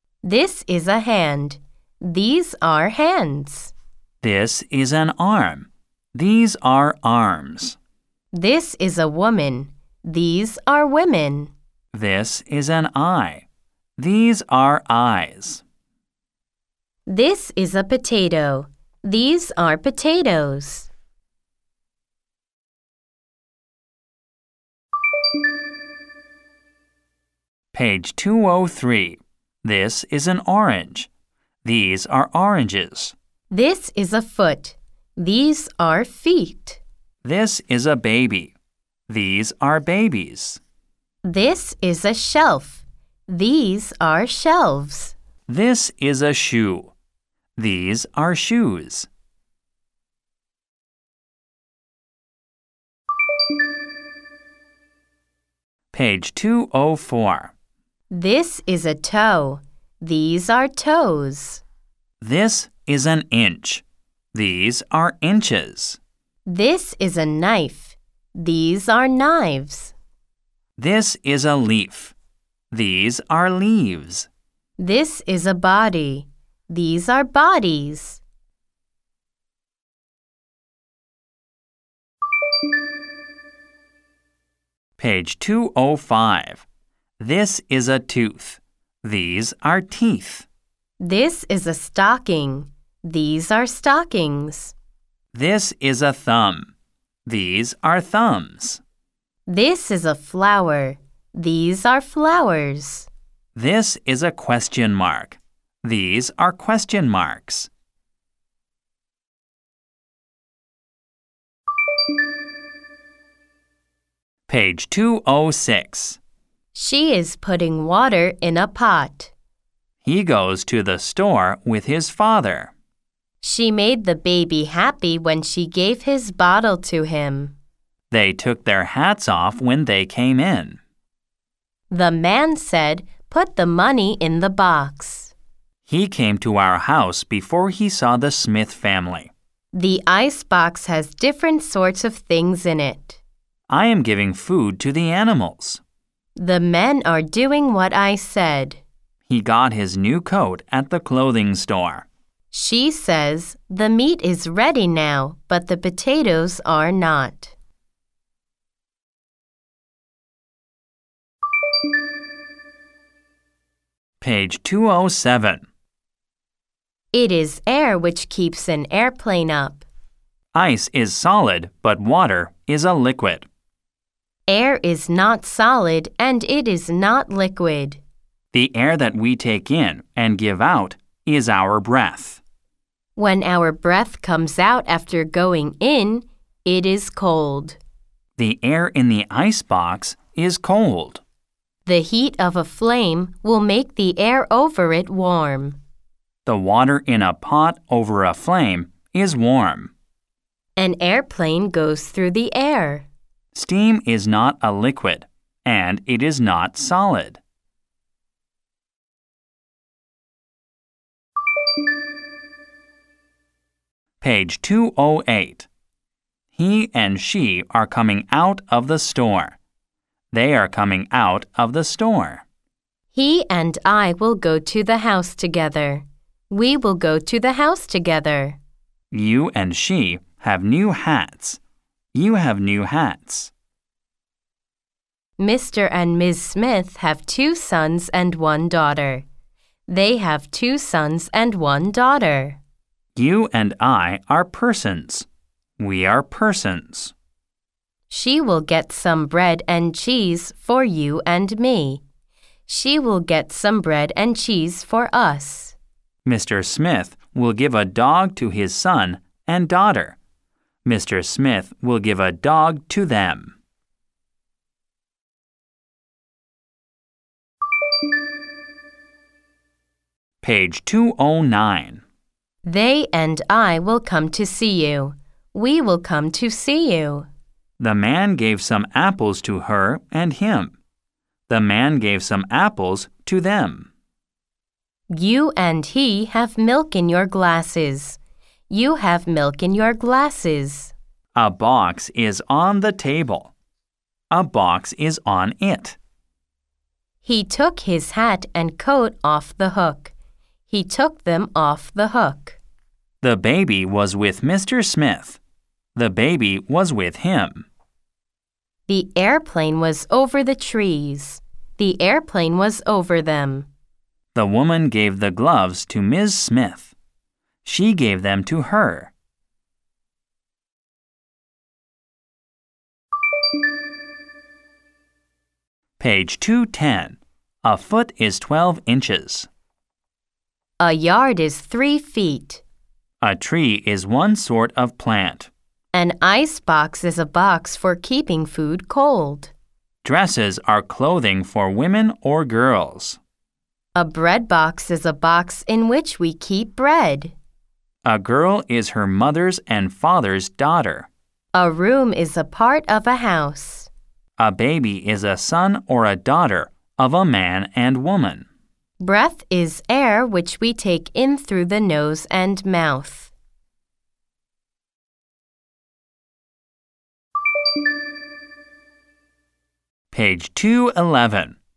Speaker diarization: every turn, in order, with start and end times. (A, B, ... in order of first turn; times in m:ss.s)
0:00.2-0:03.7 A
0:04.2-0:07.8 B
0:08.3-0:11.5 A
0:11.9-0:13.5 B
0:14.0-0:15.6 B
0:17.1-0:20.9 A
0:27.7-0:31.1 B
0:31.6-0:33.2 B
0:33.5-0:36.8 A
0:37.2-0:38.6 B
0:39.1-0:40.6 B
0:41.2-0:45.2 A
0:45.5-0:46.9 B
0:47.6-0:49.1 B
0:55.9-0:57.5 B
0:58.1-1:01.6 A
1:02.2-1:06.0 B
1:06.5-1:09.9 A
1:10.8-1:12.2 B
1:12.7-1:14.3 B
1:14.8-1:18.2 A
1:25.0-1:26.6 B
1:27.2-1:30.5 B
1:31.0-1:34.8 A
1:35.3-1:36.7 B
1:37.3-1:38.8 B
1:39.5-1:43.1 A
1:43.6-1:47.7 B
1:54.5-1:56.2 B
1:56.7-1:59.3 A
2:00.0-2:02.7 B
2:03.4-2:07.6 A
2:08.1-2:10.8 B
2:11.9-2:15.3 A
2:15.9-2:19.3 B
2:19.7-2:23.2 A
2:23.7-2:25.8 B
2:26.4-2:28.8 A
2:29.3-2:32.1 B
2:32.5-2:37.5 A
2:44.2-2:45.6 B
2:47.1-2:49.8 A
2:50.5-2:53.5 B
2:54.5-2:58.0 A
2:58.5-3:02.4 B
3:03.2-3:07.8 A
3:08.4-3:11.2 B
3:11.9-3:15.8 A
3:16.5-3:19.9 B
3:20.8-3:23.1 A
3:23.6-3:27.4 B
3:34.2-3:35.7 B
3:36.6-3:39.6 B
3:40.3-3:42.4 B
3:43.1-3:48.6 A
3:49.1-3:51.6 B
3:52.1-3:53.5 B
3:55.4-3:59.2 A
3:59.9-4:02.6 A
4:03.2-4:05.3 B
4:05.8-4:07.1 B
4:08.1-4:12.0 A
4:12.7-4:15.8 A
4:16.2-4:20.2 B
4:20.8-4:23.6 B
4:30.4-4:32.0 B
4:32.6-4:37.3 A
4:37.8-4:40.8 B
4:41.5-4:43.9 B
4:45.1-4:50.9 A
4:51.4-4:53.5 B
4:54.3-4:56.0 B
4:57.2-5:00.1 A
5:00.7-5:02.6 A
5:03.2-5:05.4 B
5:06.0-5:07.7 B
5:08.9-5:13.7 A
5:14.4-5:16.9 B
5:17.6-5:19.1 B
5:26.0-5:29.5 B
5:30.8-5:32.6 A
5:33.2-5:35.5 B
5:35.9-5:39.5 A
5:40.0-5:43.2 B
5:44.0-5:47.3 A
5:48.0-5:51.1 B
5:51.5-5:53.9 A
5:54.4-5:58.5 B
5:59.0-6:03.3 A
6:10.1-6:11.6 B